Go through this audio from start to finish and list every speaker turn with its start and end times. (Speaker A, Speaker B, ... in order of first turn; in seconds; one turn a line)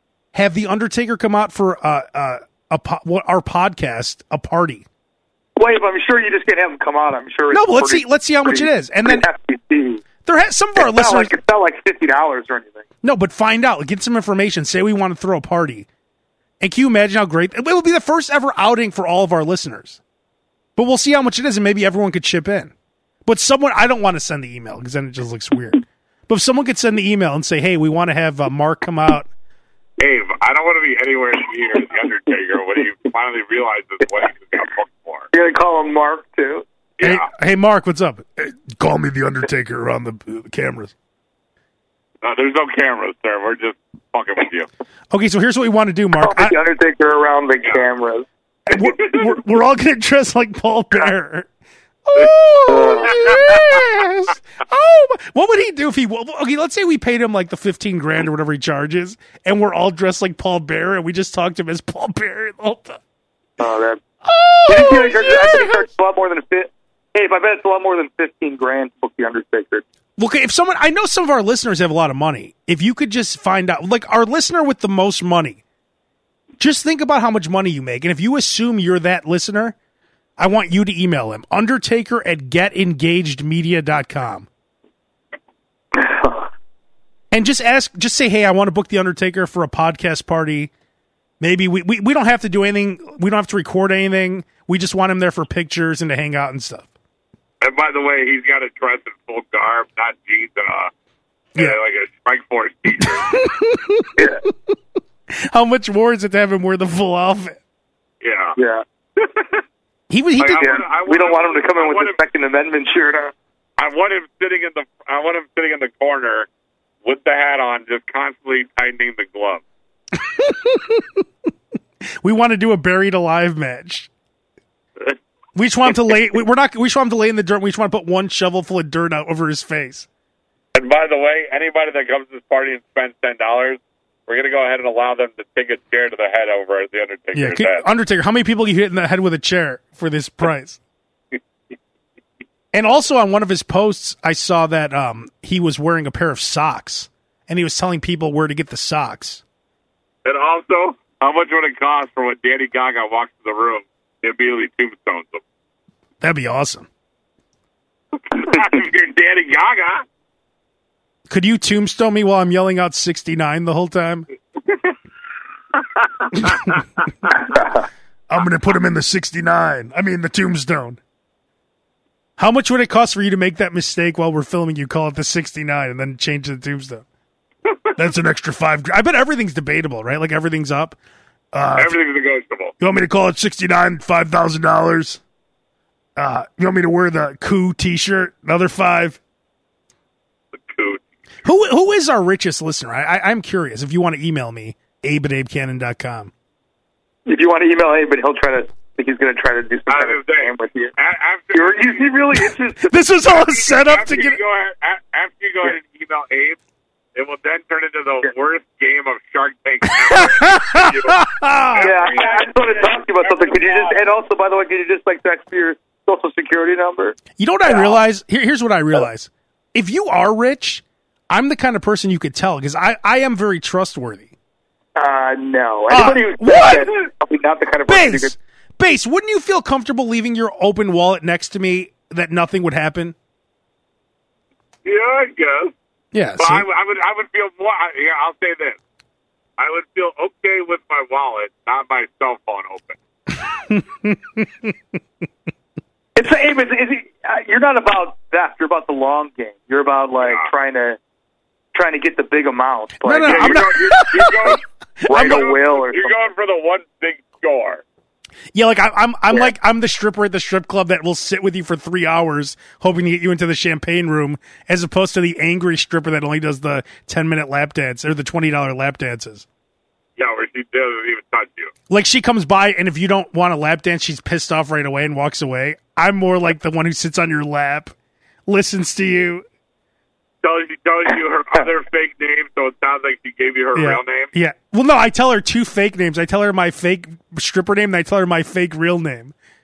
Speaker A: 0.3-4.8
Speaker B: 5.6-10.0
Speaker A: 7.5-9.3
Speaker A: 10.2-11.3
Speaker B: 10.8-12.9
Speaker A: 13.0-15.9
Speaker A: 16.6-20.0
Speaker A: 20.8-22.7
Speaker A: 23.3-29.3
Speaker C: 30.0-35.3
Speaker B: 35.3-36.6
Speaker C: 37.0-37.2
Speaker A: 37.0-40.9
Speaker C: 42.2-44.7
Speaker A: 45.1-46.6
Speaker B: 46.2-48.3
Speaker A: 48.7-51.5
Speaker C: 49.0-49.3
Speaker A: 52.0-63.0
Speaker B: 52.7-53.1
Speaker C: 53.1-53.6
Speaker B: 63.6-64.0
Speaker A: 64.2-65.9
Speaker B: 64.7-69.8
Speaker A: 70.2-75.6
Speaker A: 76.6-79.8
Speaker A: 80.4-84.5
Speaker B: 85.9-86.5
Speaker A: 87.3-90.7
Speaker A: 91.4-96.9
Speaker C: 97.6-100.9
Speaker C: 101.5-103.4
Speaker A: 103.0-104.8
Speaker B: 104.2-104.4
Speaker A: 105.3-107.6
Speaker C: 108.2-108.6
Speaker B: 108.6-108.8
Speaker C: 109.2-109.6
Speaker A: 110.1-110.7
Speaker C: 110.4-112.2
Speaker B: 110.5-113.3
Speaker C: 113.8-116.5
Speaker C: 117.0-119.6
Speaker A: 120.1-121.2
Speaker A: 122.2-124.1
Speaker A: 125.5-130.1
Speaker C: 130.8-137.8
Speaker A: 137.3-140.8
Speaker A: 142.7-149.4
Speaker C: 150.2-155.4
Speaker A: 156.2-156.9
Speaker C: 158.3-160.1
Speaker A: 161.3-164.3
Speaker C: 166.0-166.8
Speaker A: 166.3-166.8
Speaker B: 167.5-167.8
Speaker A: 168.3-171.0
Speaker A: 172.4-177.1
Speaker A: 178.0-181.0
Speaker A: 181.5-182.0
Speaker C: 181.8-182.7
Speaker A: 182.8-185.2
Speaker A: 186.2-189.2
Speaker C: 190.5-191.0
Speaker A: 191.4-196.3
Speaker B: 197.3-200.9
Speaker C: 199.9-202.1
Speaker B: 201.5-202.9
Speaker A: 202.8-204.4
Speaker C: 203.7-206.6
Speaker C: 207.2-214.0
Speaker A: 209.8-211.9
Speaker B: 211.8-218.0
Speaker A: 217.4-224.3
Speaker B: 225.0-228.3
Speaker A: 225.9-227.0
Speaker A: 227.9-233.2
Speaker C: 234.8-235.7
Speaker A: 236.1-236.7
Speaker C: 236.4-238.8
Speaker C: 239.6-243.0
Speaker A: 243.4-244.8
Speaker B: 246.2-251.0
Speaker C: 250.2-250.5
Speaker B: 251.7-253.7
Speaker A: 253.0-254.6
Speaker C: 253.3-257.8
Speaker B: 255.1-256.1
Speaker A: 255.2-255.5
Speaker A: 258.5-269.5
Speaker C: 270.2-271.7
Speaker A: 271.9-277.9
Speaker A: 278.5-279.4
Speaker C: 280.4-284.3
Speaker A: 283.7-289.3